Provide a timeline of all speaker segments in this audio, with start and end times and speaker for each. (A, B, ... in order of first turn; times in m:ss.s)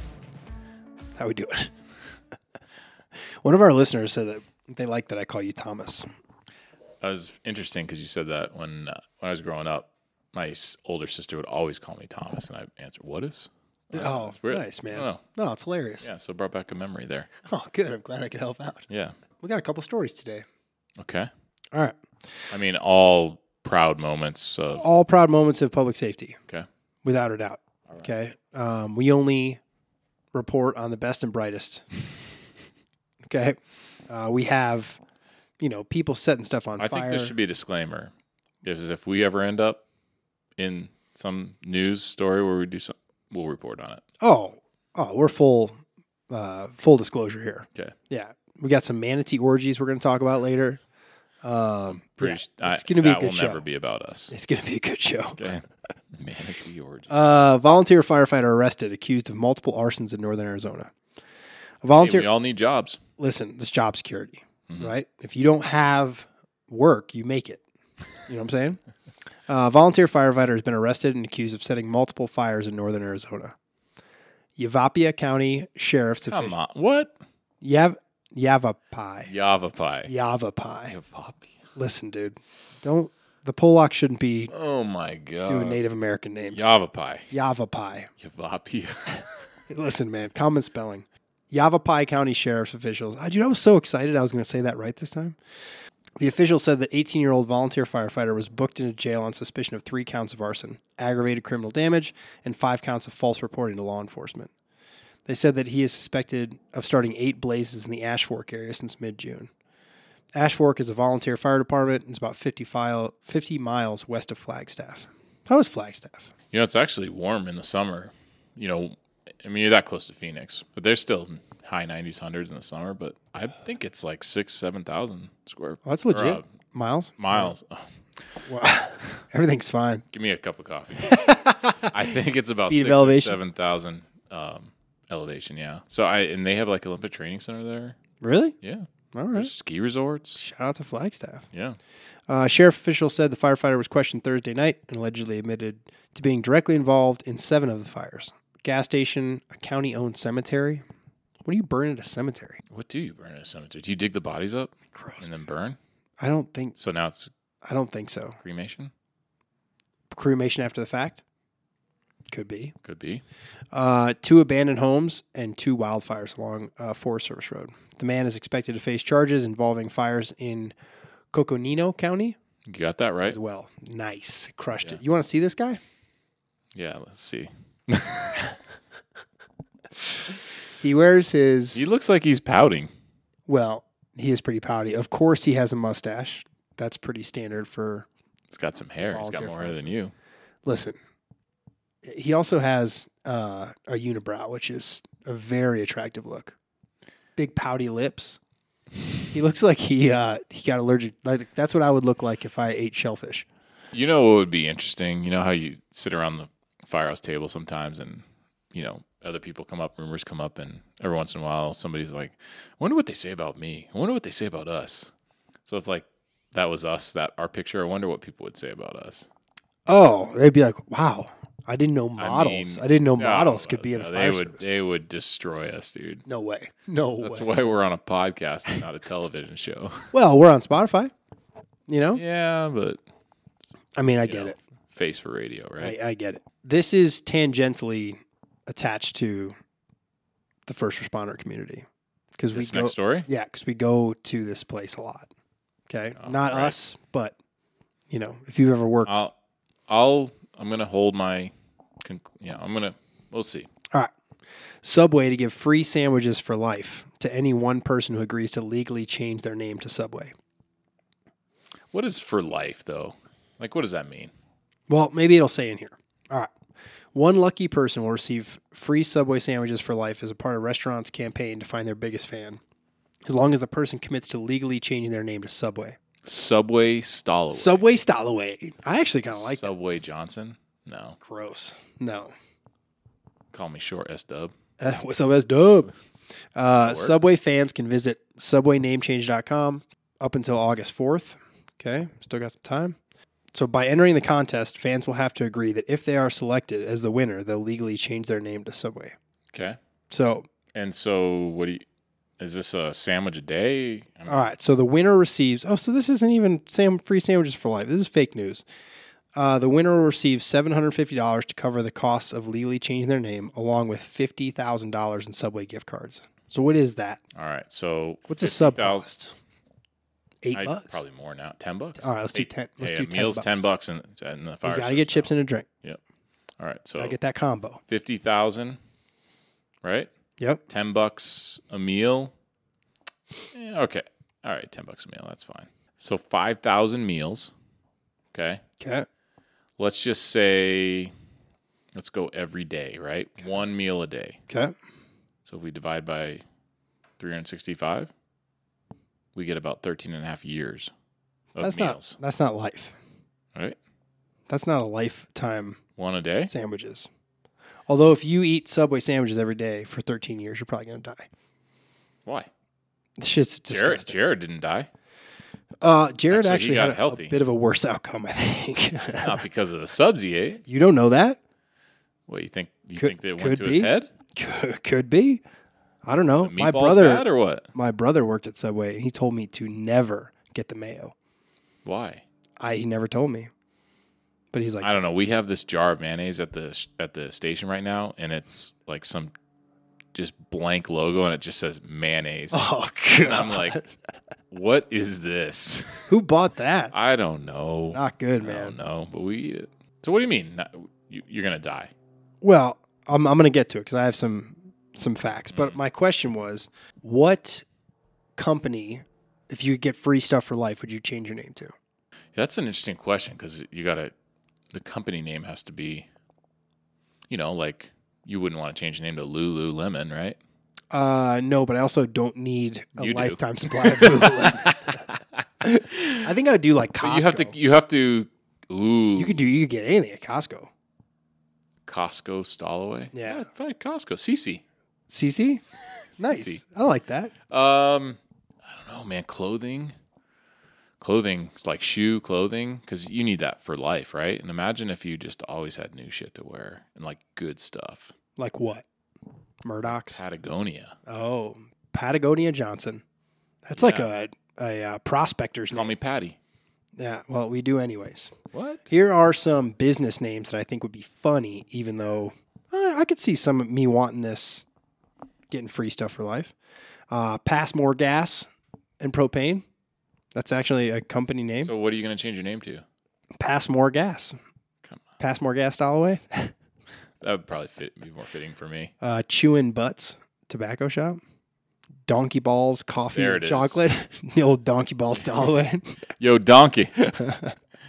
0:01.2-0:01.7 A
0:03.4-0:06.0 A
0:07.0-0:15.2 B
0:13.9-0:16.1 A
0:16.0-0:17.3 B
0:17.4-0:18.9 A
0:18.9-0:19.2 B
0:19.4-0:20.4 A
0:21.0-0:21.3 B
0:21.7-0:22.0 A
0:22.5-0:24.9 B
0:24.7-0:26.4 A
0:27.0-0:29.6 A
0:30.3-0:31.8 A
0:33.2-0:33.6 A
0:34.1-0:35.0 A
0:35.6-0:37.3 A
0:36.8-0:38.1 B
0:38.6-0:39.8 B
0:40.6-0:44.0 B
0:44.2-0:50.8 A
0:51.4-0:53.6 A
0:51.9-0:54.3 B
0:54.3-0:55.6 A
0:56.2-0:57.1 B
0:57.1-1:00.9 A
1:01.8-1:02.3 A
1:02.0-1:03.0 B
1:03.2-1:07.6 A
1:08.2-1:08.8 A
1:09.5-1:13.5 A
1:14.6-1:16.6 A
1:16.3-1:17.2 B
1:17.6-1:19.3 A
1:19.2-1:20.1 B
1:20.0-1:21.0 A
1:20.9-1:21.5 B
1:21.8-1:24.5 A
1:24.5-1:25.8 B
1:25.4-1:26.8 A
1:26.5-1:27.3 B
1:27.3-1:28.1 A
1:28.2-1:29.3 B
1:29.7-1:35.4 A
1:36.2-1:44.5 A
1:45.2-1:49.5 A
1:50.4-1:56.3 A
1:56.5-2:06.4 B
2:05.8-2:07.5 A
2:07.2-2:07.8 B
2:08.4-2:10.0 A
2:10.1-2:18.0 B
2:11.0-2:12.1 A
2:12.7-2:13.4 A
2:18.2-2:18.5 A
2:18.6-2:20.4 B
2:19.1-2:19.5 A
2:20.4-2:21.4 A
2:21.5-2:21.8 B
2:22.3-2:30.8 A
2:31.4-2:32.6 A
2:32.7-2:35.8 B
2:34.9-2:35.3 A
2:36.2-2:36.8 A
2:36.8-2:37.3 B
2:37.6-2:38.4 A
2:38.4-2:38.9 B
2:40.1-2:41.2 A
2:42.3-2:42.7 A
2:42.8-2:43.2 B
2:43.7-2:50.7 A
2:51.3-2:52.4 A
2:52.7-2:53.4 B
2:53.2-2:55.8 A
2:56.7-2:58.6 B
3:00.8-3:01.9 A
3:01.7-3:02.9 B
3:03.5-3:08.1 A
3:08.5-3:10.1 B
3:09.0-3:09.9 A
3:10.6-3:11.0 A
3:12.0-3:16.5 A
3:17.4-3:18.4 A
3:19.3-3:23.5 A
3:23.9-3:28.2 B
3:28.7-3:35.1 B
3:35.6-3:39.3 B
3:39.9-3:44.7 A
3:42.2-3:46.2 B
3:46.2-3:47.5 A
3:47.2-3:50.0 B
3:50.1-3:51.1 A
3:51.9-3:52.2 A
3:52.1-3:53.0 B
3:54.0-3:54.6 A
3:54.3-3:56.0 B
3:55.8-3:59.5 A
4:00.6-4:01.8 A
4:02.4-4:05.3 A
4:02.5-4:03.3 B
4:05.9-4:07.4 A
4:06.2-4:06.8 B
4:08.1-4:09.3 A
4:09.1-4:09.3 B
4:09.9-4:13.7 B
4:14.8-4:20.3 A
4:21.9-4:24.3 B
4:24.9-4:26.5 A
4:27.1-4:32.6 A
4:33.2-4:36.0 A
4:36.2-4:37.8 B
4:37.5-4:39.7 A
4:39.3-4:41.2 B
4:41.2-4:42.3 A
4:43.5-4:44.5 B
4:44.8-4:45.9 A
4:46.6-4:53.0 A
4:46.8-4:47.2 B
4:53.5-4:59.1 A
4:59.5-4:59.8 B
5:00.1-5:00.5 A
5:00.7-5:01.8 B
5:02.4-5:04.5 B
5:04.3-5:08.6 A
5:09.4-5:17.2 A
5:17.3-5:19.1 B
5:18.3-5:19.3 A
5:20.4-5:21.0 A
5:20.5-5:26.0 B
5:22.0-5:23.7 A
5:24.6-5:25.6 A
5:26.6-5:27.2 B
5:27.0-5:27.8 A
5:27.9-5:28.8 B
5:29.8-5:30.1 B
5:30.7-5:32.3 B
5:33.5-5:37.5 B
5:38.3-5:38.6 B
5:38.8-5:39.0 A
5:39.8-5:41.1 B
5:41.9-5:44.4 B
5:44.5-5:44.7 A
5:45.4-5:46.4 B
5:47.2-5:48.1 B
5:49.3-5:50.9 B
5:51.6-5:52.2 B
5:51.6-5:52.9 A
5:54.5-5:55.8 A
5:56.0-5:56.5 B
5:56.5-5:57.1 A
5:57.9-6:01.3 A
6:03.2-6:04.2 A
6:03.7-6:04.9 B
6:05.8-6:09.4 A
6:06.3-6:07.4 B
6:09.2-6:10.6 B
6:10.7-6:11.4 A
6:12.3-6:14.1 B
6:13.0-6:15.4 A
6:16.0-6:21.1 A
6:16.4-6:17.7 B
6:21.8-6:22.2 B
6:22.6-6:23.5 A
6:24.5-6:25.0 A
6:24.8-6:29.3 B
6:30.1-6:33.8 B
6:32.5-6:33.9 A
6:34.5-6:36.1 B
6:36.1-6:36.9 A
6:36.9-6:41.9 B
6:37.9-6:38.8 A
6:42.4-6:47.6 A
6:45.5-6:45.8 B
6:48.4-6:51.7 A
6:52.4-6:54.1 B
6:54.7-6:56.1 B
6:57.3-7:00.4 B
7:00.9-7:05.0 A
7:03.0-7:06.3 B
7:05.6-7:07.6 A
7:07.0-7:09.5 B
7:09.1-7:10.7 A
7:11.8-7:14.6 B
7:13.1-7:13.5 A
7:15.1-7:15.6 A
7:16.2-7:16.6 B
7:16.2-7:17.3 A
7:17.5-7:19.9 B
7:21.0-7:28.1 B
7:28.4-7:28.8 A
7:29.6-7:30.2 A
7:29.9-7:30.9 B
7:31.0-7:33.0 A
7:33.6-7:35.9 A
7:33.7-7:34.0 B
7:35.7-7:36.4 B
7:37.0-7:38.4 A
7:38.5-7:38.8 B
7:38.9-7:44.6 A
7:45.5-7:46.5 A
7:47.1-7:49.6 A
7:50.3-7:51.7 A
7:51.6-7:52.8 B
7:53.4-7:54.3 A
7:55.2-7:56.5 A
7:57.2-7:58.9 B
7:59.0-8:01.2 A
8:02.1-8:06.0 A
8:03.1-8:03.8 B
8:06.2-8:07.0 B
8:07.0-8:07.5 A